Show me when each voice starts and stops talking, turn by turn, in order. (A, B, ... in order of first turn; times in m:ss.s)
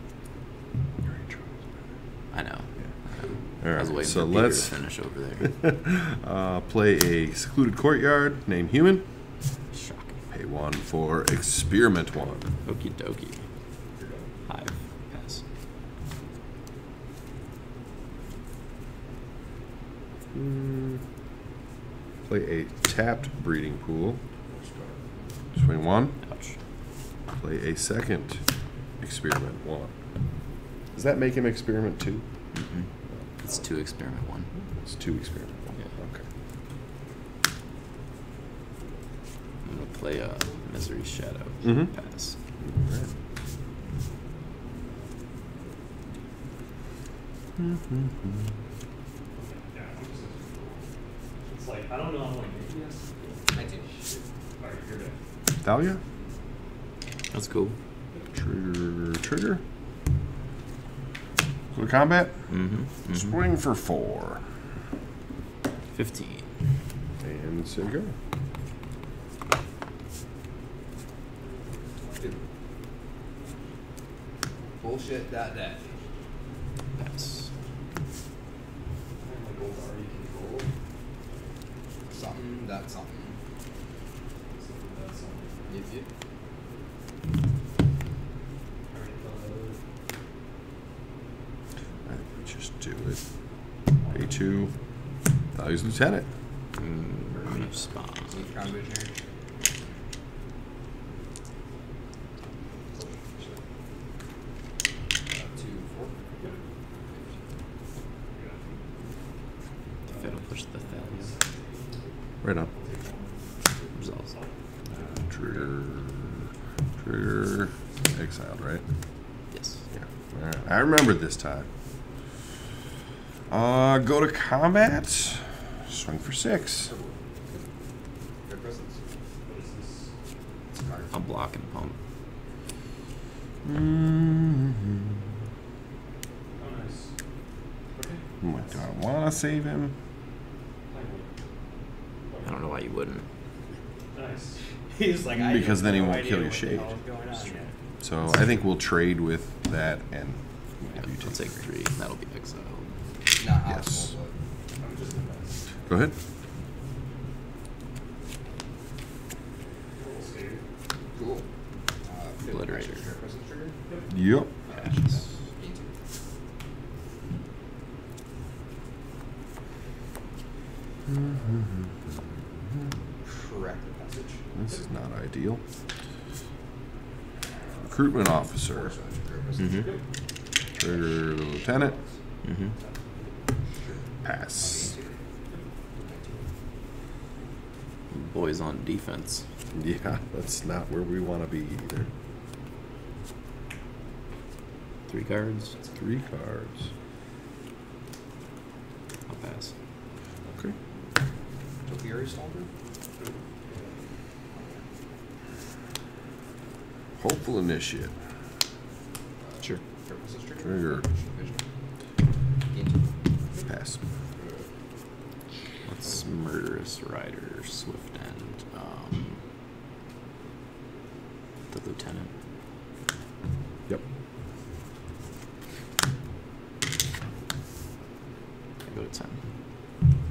0:01.0-0:01.6 A
0:02.3-0:05.5 B
0:03.6-0:04.8 A
0:05.4-0:09.0 A
0:09.7-0:10.2 B
0:10.3-0:12.5 A
0:12.6-0:13.4 B
0:14.5-0:15.4 B
0:20.3-0:21.0 A
0:22.2-0:24.2 A
0:24.6-0:24.9 C
0:25.6-0:26.2 A
0:26.2-0:26.6 B
0:27.4-0:28.4 A
0:29.0-0:29.9 A
0:30.9-0:32.2 A
0:32.5-0:32.9 B
0:33.4-0:34.5 B
0:34.8-0:36.2 A
0:39.6-0:42.4 B
0:41.6-0:41.9 A
0:42.6-0:43.1 A
0:47.6-0:48.5 A
0:49.4-0:50.9 D
0:51.5-0:53.9 D
0:53.5-0:54.3 C
0:54.6-0:55.2 D
0:55.6-0:56.0 A
0:57.3-0:57.8 B
0:58.3-0:59.6 A
1:01.7-1:02.5 A
1:02.5-1:03.4 B
1:03.1-1:04.4 A
1:05.9-1:06.5 B
1:07.2-1:08.1 A
1:11.4-1:12.4 D
1:14.8-1:15.9 C
1:17.0-1:17.5 B
1:19.2-1:20.7 D
1:22.1-1:23.4 C
1:24.5-1:25.8 D
1:25.7-1:26.1 C
1:28.9-1:29.8 D
1:32.1-1:33.2 A
1:34.0-1:34.4 D
1:34.1-1:34.7 A
1:35.5-1:36.3 A
1:36.8-1:38.5 B
1:37.4-1:39.2 C
1:42.9-1:43.6 D
1:45.3-1:46.3 C
1:48.3-1:48.8 D
1:50.1-1:55.6 D
1:50.1-1:51.3 B
1:52.4-1:52.7 A
1:54.0-1:54.3 B
1:55.3-1:56.5 A
1:57.0-1:58.8 A
1:59.5-1:59.8 B
1:59.9-2:01.7 A
2:03.5-2:06.9 A
2:06.8-2:07.6 C
2:08.5-2:09.0 C
2:09.5-2:10.1 D
2:10.7-2:11.3 C
2:11.1-2:12.0 B
2:13.6-2:15.1 A
2:16.6-2:17.1 D
2:17.9-2:18.3 D
2:18.4-2:19.9 A
2:20.9-2:21.3 D
2:22.2-2:22.7 D
2:22.4-2:23.3 B
2:24.1-2:24.6 D
2:24.9-2:27.7 C
2:25.3-2:27.0 A
2:28.0-2:31.5 A
2:31.0-2:33.0 B
2:33.4-2:34.3 C
2:33.6-2:34.2 A
2:34.8-2:35.7 D
2:35.9-2:36.2 A
2:39.6-2:40.6 D
2:41.1-2:41.5 C
2:42.0-2:43.8 C
2:42.5-2:43.1 B
2:44.1-2:44.5 A
2:44.7-2:46.0 C
2:44.7-2:45.0 B
2:51.1-2:52.8 A
2:53.2-2:54.4 C
2:54.3-2:54.8 D
2:54.6-2:55.6 A
2:57.8-2:59.0 A
2:58.3-3:00.0 C
2:59.6-2:59.8 B
3:00.8-3:02.0 A
3:00.8-3:01.2 C
3:01.6-3:03.5 D
3:02.4-3:02.7 B
3:04.2-3:04.9 A
3:04.6-3:05.2 C
3:05.9-3:06.5 C
3:08.1-3:09.4 B
3:09.7-3:12.1 A
3:15.1-3:15.7 B
3:15.6-3:16.3 C
3:16.0-3:16.9 A
3:19.3-3:19.7 B
3:20.5-3:20.8 A
3:21.9-3:22.7 C
3:23.2-3:24.0 D
3:24.5-3:24.8 C
3:27.2-3:28.1 A
3:29.4-3:31.6 C
3:30.6-3:31.1 A
3:32.7-3:33.2 C
3:33.7-3:34.0 A
3:34.4-3:34.7 C
3:35.8-3:39.4 B
3:41.7-3:42.3 B
3:48.8-3:49.4 B